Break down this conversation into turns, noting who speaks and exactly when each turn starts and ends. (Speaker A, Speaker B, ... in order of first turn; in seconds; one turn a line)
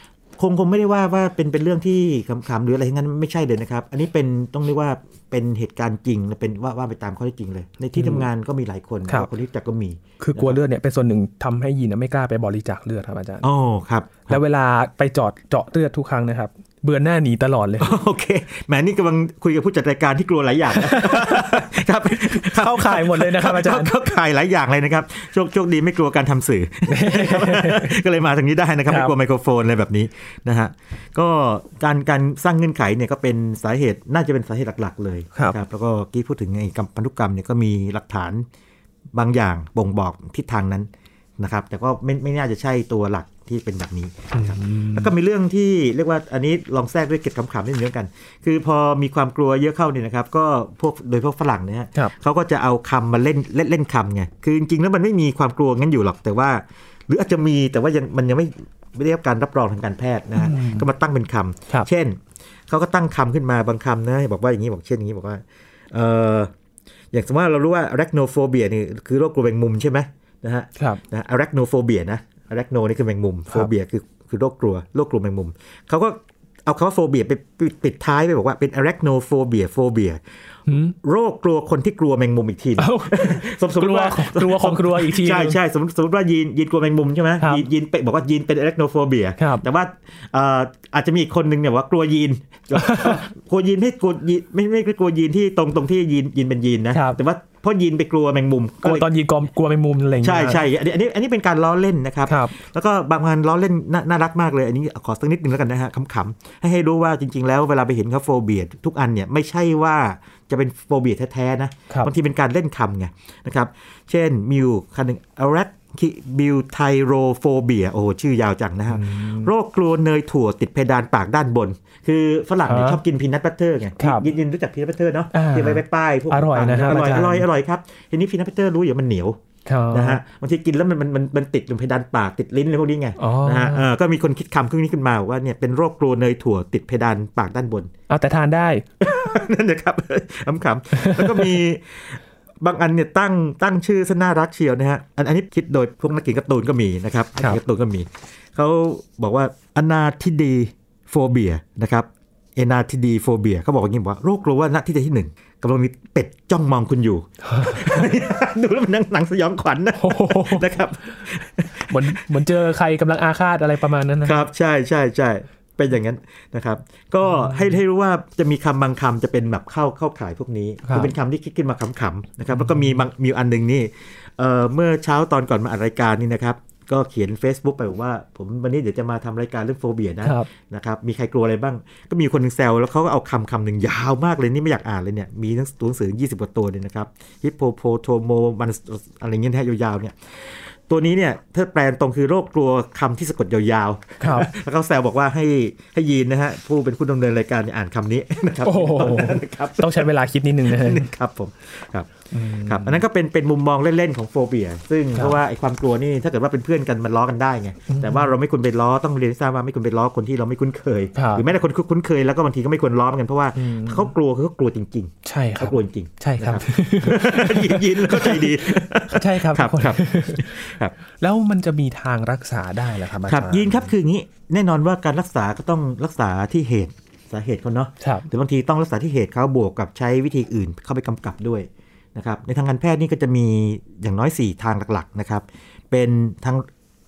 Speaker A: 0.4-10.6
Speaker B: 8.0-8.3
Speaker B: 10.2-13.5
Speaker A: 13.4-14.4
Speaker B: 14.3-17.9
Speaker A: 17.8-38.5
Speaker B: 20.7-23.9
Speaker B: 26.9-28.0
Speaker B: 28.9-29.1
Speaker A: 39.1-66.5
Speaker B: 44.3-45.1
Speaker B: 60.4-60.9
Speaker A: 67.1-80.2
Speaker B: 80.7-81.0
Speaker A: 81.0-99.1
Speaker B: 82.8-85.6
Speaker B: 89.4-89.7
Speaker B: 92.8-93.2
Speaker B: 96.9-97.2
Speaker B: 98.8-100.6
Speaker A: 100.2-129.4
Speaker B: 102.3-102.6
Speaker B: 118.9-119.5
Speaker B: 122.7-123.0
Speaker B: 124.0-124.3
Speaker B: 125.3-127.5
Speaker B: 129.7-130.2
Speaker A: 129.9-137.9
Speaker B: 133.2-133.9
Speaker B: 138.1-138.9
Speaker A: 139.0-162.3
Speaker B: 140.9-141.6
Speaker B: 157.4-158.1
Speaker B: 160.0-160.8
Speaker B: 161.9-164.4
Speaker A: 164.2-200.1
Speaker B: 167.3-167.8
Speaker B: 170.9-171.1
Speaker B: 172.5-173.0
Speaker B: 180.2-180.5
Speaker B: 194.2-194.5
Speaker B: 198.6-201.1
Speaker A: 200.6-220.9
Speaker B: 202.3-203.0
Speaker B: 207.9-208.3
Speaker B: 211.2-211.4
Speaker B: 213.6-214.1
Speaker B: 215.2-223.9
Speaker A: 223.2-236.7
Speaker B: 228.0-228.3